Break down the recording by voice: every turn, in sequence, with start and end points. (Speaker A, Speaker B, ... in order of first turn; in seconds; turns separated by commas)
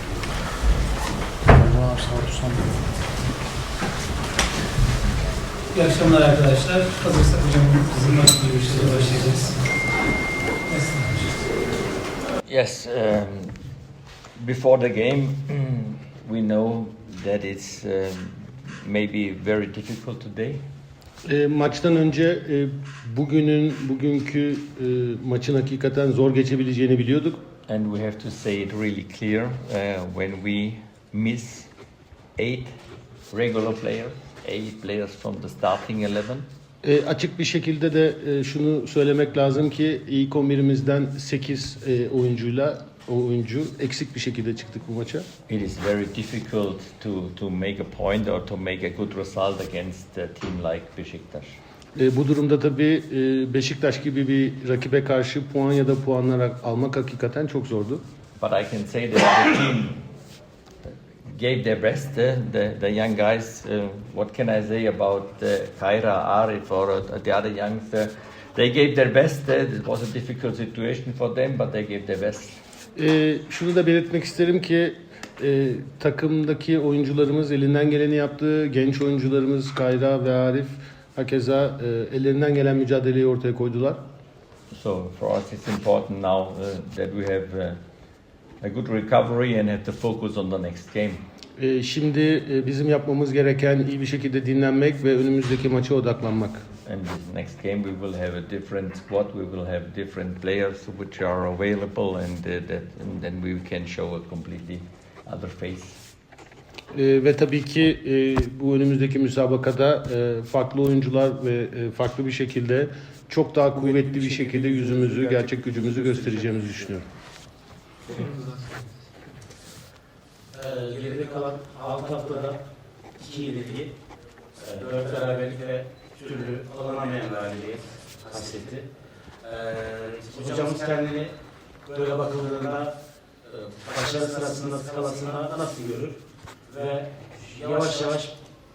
Speaker A: 1.6-2.5, Speaker A: 5.7-9.6, Speaker A: 10.7-11.3, Speaker B: 12.4-13.6, Speaker B: 14.4-20.6, Speaker C: 21.2-27.4, Speaker B: 27.7-31.7, Speaker B: 32.4-32.7, Speaker B: 33.3-36.5, Speaker C: 36.8-45.3, Speaker B: 45.5-51.6, Speaker C: 51.9-58.0, Speaker B: 58.4-60.1, Speaker B: 60.9-72.6, Speaker C: 72.9-84.0, Speaker B: 84.7-87.8, Speaker B: 88.6-91.2, Speaker C: 91.6-96.6, Speaker B: 96.8-106.0, Speaker C: 106.9-117.0, Speaker A: 118.3-118.7, Speaker D: 120.5-122.6, Speaker D: 123.1-123.9, Speaker D: 124.5-138.4